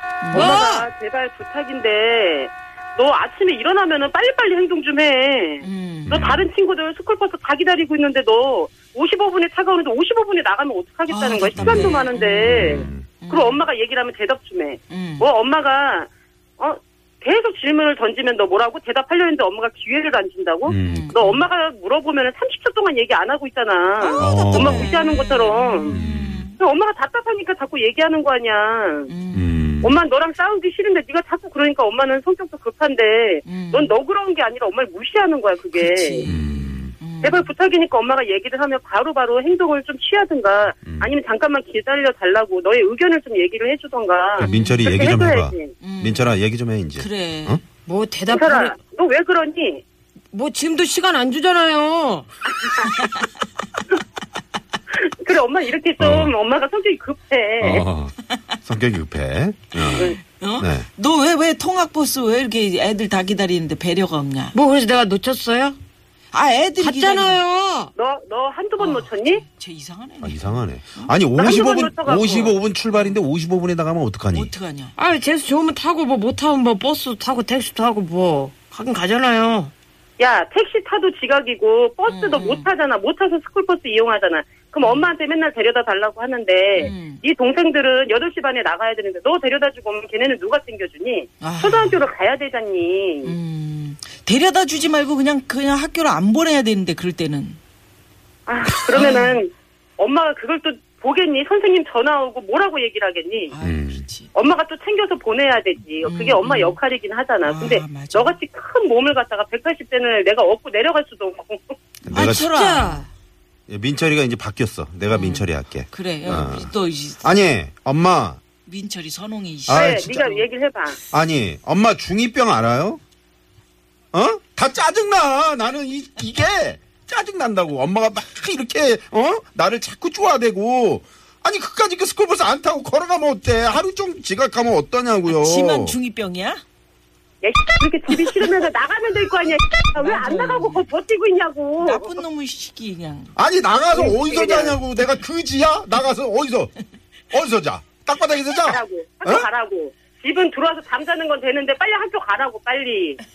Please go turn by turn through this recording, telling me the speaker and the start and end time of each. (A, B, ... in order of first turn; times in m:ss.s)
0:00.2-0:00.6 A
0:00.3-0:26.0 B
0:00.3-0:00.9 C
0:05.6-0:06.3 A
0:06.1-0:06.5 D
0:11.1-0:13.6 A
0:11.6-0:13.1 D
0:14.9-0:15.2 A
0:20.6-0:21.1 D
0:20.8-0:21.4 A
0:24.0-0:26.6 A
0:24.2-0:24.9 D
0:25.9-0:26.4 D
0:26.6-0:29.1 B
0:29.1-0:29.6 A
0:29.3-0:30.0 D
0:29.8-0:36.2 B
0:33.4-0:33.9 A
0:35.7-0:37.5 A
0:36.2-0:36.9 D
0:37.2-0:45.7 B
0:40.8-0:41.1 D
0:44.4-0:47.6 D
0:44.4-0:44.8 A
0:45.8-0:46.4 A
0:47.0-0:47.6 A
0:47.9-0:48.8 C
0:48.3-0:49.8 B
0:50.3-0:52.2 C
0:52.5-0:53.0 B
0:55.2-0:57.9 B
0:56.0-0:56.3 D
0:57.6-1:00.8 D
0:59.7-1:04.6 A
1:04.5-1:05.8 C
1:06.3-1:07.4 A
1:06.8-1:07.9 C
1:08.0-1:09.4 B
1:08.8-1:11.1 A
1:10.2-1:14.5 D
1:11.4-1:12.6 B
1:12.9-1:13.2 A
1:14.3-1:14.9 A
1:15.0-1:19.7 C
1:20.2-1:33.3 B
1:22.1-1:22.7 A
1:24.8-1:25.1 A
1:26.8-1:27.2 A
1:31.4-1:32.0 A
1:33.2-1:37.6 A
1:38.5-1:43.5 B
1:38.9-1:39.4 A
1:43.5-1:44.3 A
1:43.6-1:44.0 D
1:44.3-1:51.8 B
1:46.0-1:46.8 A
1:47.4-1:48.4 A
1:52.0-1:52.5 D
1:52.1-1:53.0 A
1:52.1-1:53.0 C
1:53.7-1:58.4 D
1:55.1-1:57.3 A
1:58.6-2:00.4 A
1:59.7-2:00.2 D
1:59.7-2:01.0 B
2:01.1-2:03.0 D
2:04.1-2:16.0 D
2:15.3-2:16.6 A
2:17.4-2:22.2 B
2:19.9-2:20.8 A
2:21.8-2:23.3 A
2:23.4-2:26.7 D
2:23.9-2:24.8 B
2:27.3-2:29.5 D
2:28.6-2:33.2 B